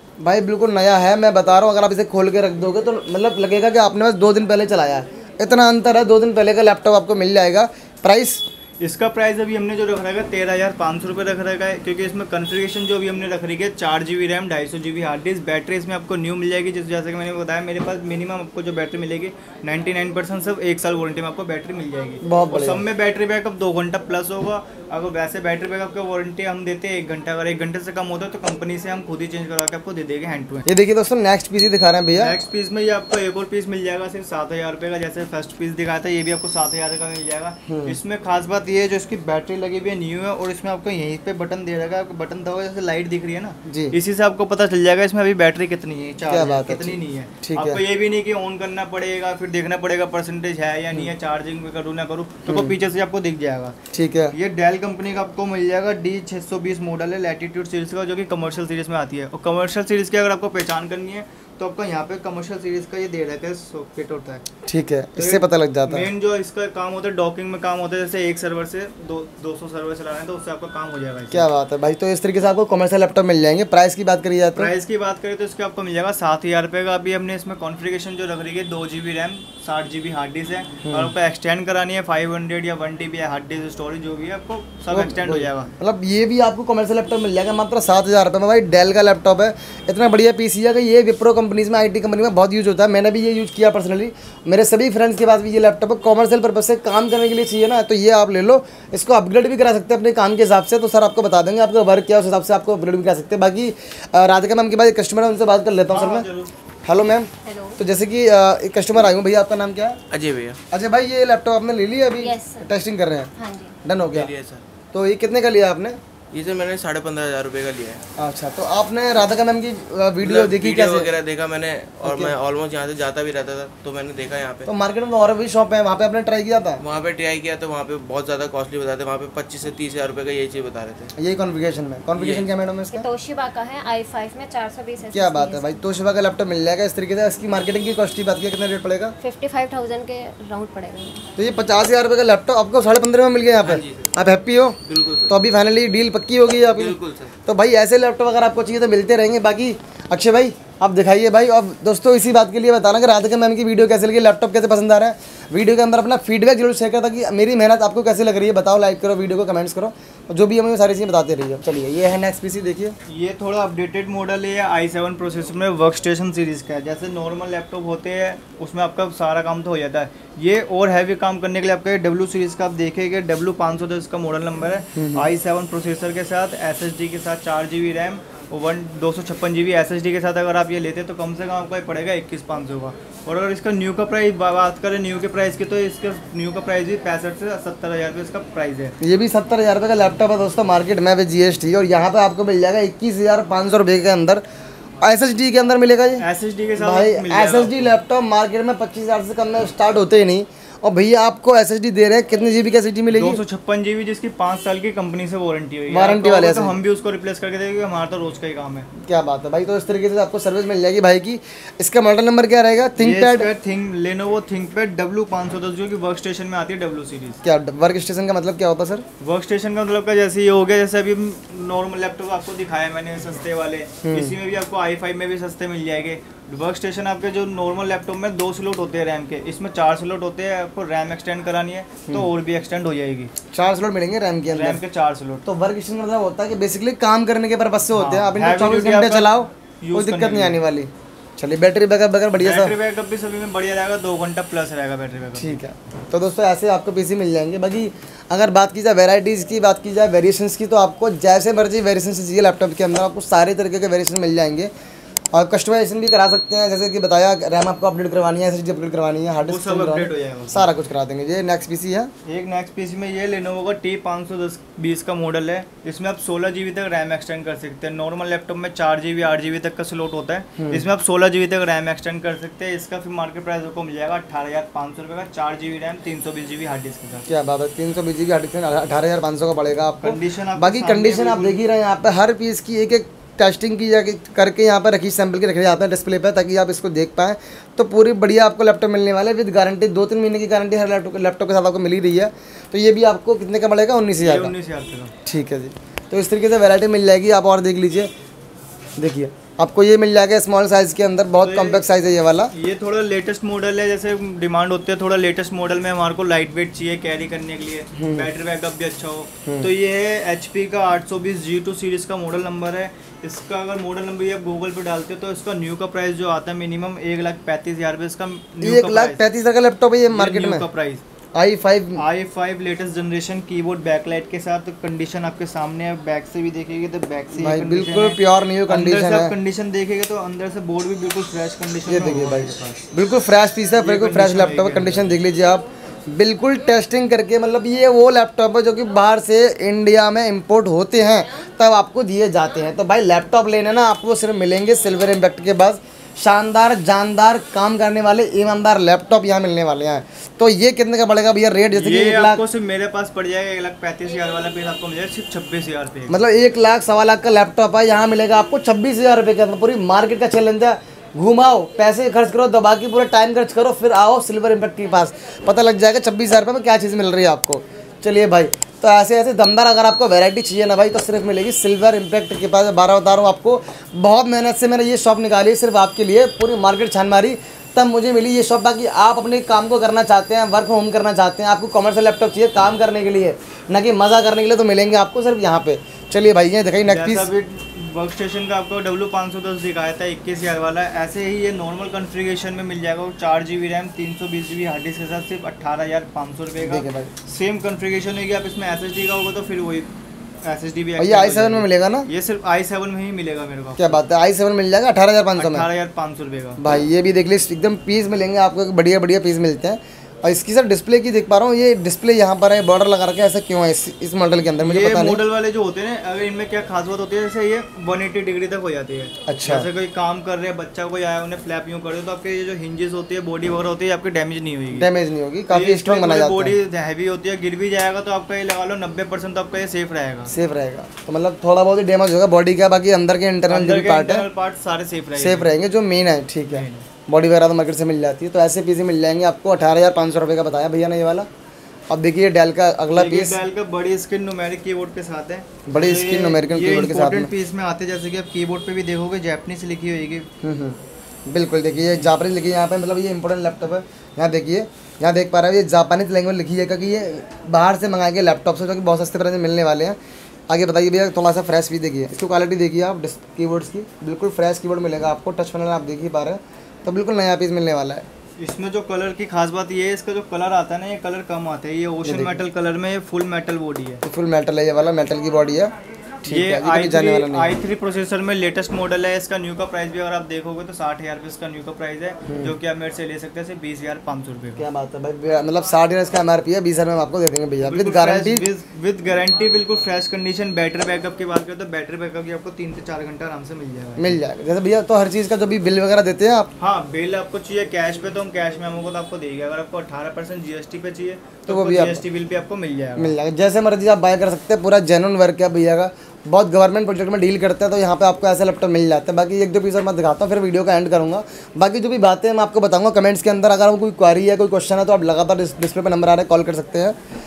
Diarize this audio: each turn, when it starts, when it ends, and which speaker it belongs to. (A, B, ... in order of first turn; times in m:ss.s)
0:00.2-0:08.4 A
0:08.8-0:30.6 B
0:22.2-0:22.8 A
0:30.6-0:32.4 A
0:32.2-0:53.7 B
0:37.6-0:38.0 A
0:43.7-0:44.0 A
0:46.3-0:47.8 A
0:52.5-0:52.7 A
0:53.9-0:54.3 A
0:54.3-1:04.4 B
1:04.7-1:06.1 A
1:05.2-1:11.4 B
1:11.3-1:14.7 A
1:14.5-1:25.7 B
1:20.8-1:21.1 A
1:24.9-1:46.3 A
1:45.9-1:46.5 B
1:46.8-1:50.0 A
1:47.4-1:47.8 C
1:50.1-1:50.6 D
1:50.7-1:53.3 A
1:52.2-1:52.7 C
1:53.4-1:53.8 C
1:53.8-1:54.3 A
1:54.0-1:54.6 D
1:54.9-1:56.0 A
1:56.3-1:58.0 D
1:58.2-2:01.1 A
2:00.2-2:04.7 D
2:02.0-2:02.3 A
2:04.6-2:06.8 A
2:06.8-2:11.1 D
2:11.2-2:13.1 A
2:12.2-2:12.5 D
2:12.9-2:15.8 C
2:15.1-2:19.1 A
2:19.2-2:21.2 C
2:21.4-2:42.9 A
2:23.6-2:24.1 D
2:24.8-2:25.4 D
2:26.7-2:27.3 D
2:43.0-3:08.9 B
2:54.9-2:55.3 A
3:09.0-3:14.4 A
3:15.0-3:16.2 A
3:16.2-3:17.8 B
3:16.8-3:23.4 A
3:23.1-3:28.9 B
3:25.9-3:26.8 A
3:29.0-3:33.5 A
3:33.0-3:37.4 B
3:37.4-3:39.0 A
3:39.2-3:53.3 B
3:44.0-3:44.4 A
3:53.5-3:54.8 A
3:54.5-3:55.4 B
3:55.4-4:02.7 A
3:57.9-4:00.6 B
4:02.4-4:05.6 B
4:05.4-4:14.7 A
4:15.3-4:22.1 A
4:19.4-4:20.7 B
4:22.2-4:37.2 B
4:30.6-4:30.8 A
4:37.3-4:54.5 A
4:40.0-4:41.6 B
4:54.2-4:55.1 B
4:55.2-4:58.1 A
4:59.0-5:02.5 A
5:01.4-5:01.8 B
5:02.5-5:19.2 B
5:08.0-5:08.3 A
5:09.4-5:09.7 A
5:18.6-5:20.6 A
5:20.1-5:21.0 B
5:21.3-5:22.0 A
5:22.0-5:32.8 B
5:27.3-5:29.3 A
5:31.9-5:52.4 A
5:33.8-5:35.1 B
5:51.7-5:56.2 B
5:56.1-6:27.3 A
6:26.8-6:39.9 B
6:36.6-6:37.1 A
6:40.4-6:44.0 B
6:41.0-6:42.1 A
6:43.8-6:45.7 A
6:45.4-6:46.6 B
6:46.6-6:55.2 A
6:54.6-7:04.9 B
6:59.3-6:59.7 A
7:04.7-7:06.6 A
7:05.5-7:10.3 B
7:10.3-7:14.3 A
7:13.5-7:15.5 B
7:15.2-7:21.3 A
7:16.5-7:16.9 B
7:21.9-7:23.4 A
7:22.9-7:30.3 B
7:25.7-7:27.3 A
7:30.4-7:30.8 A
7:31.3-7:40.0 A
7:40.5-7:48.0 A
7:48.4-7:54.0 B
7:52.0-7:52.4 A
7:54.0-7:55.7 A
7:56.2-7:57.5 A
7:56.2-8:04.6 B
8:02.3-8:02.6 A
8:04.6-8:08.4 A
8:07.6-8:14.2 B
8:14.0-8:16.5 A
8:16.6-8:23.1 B
8:21.5-8:22.0 A
8:23.0-8:37.0 A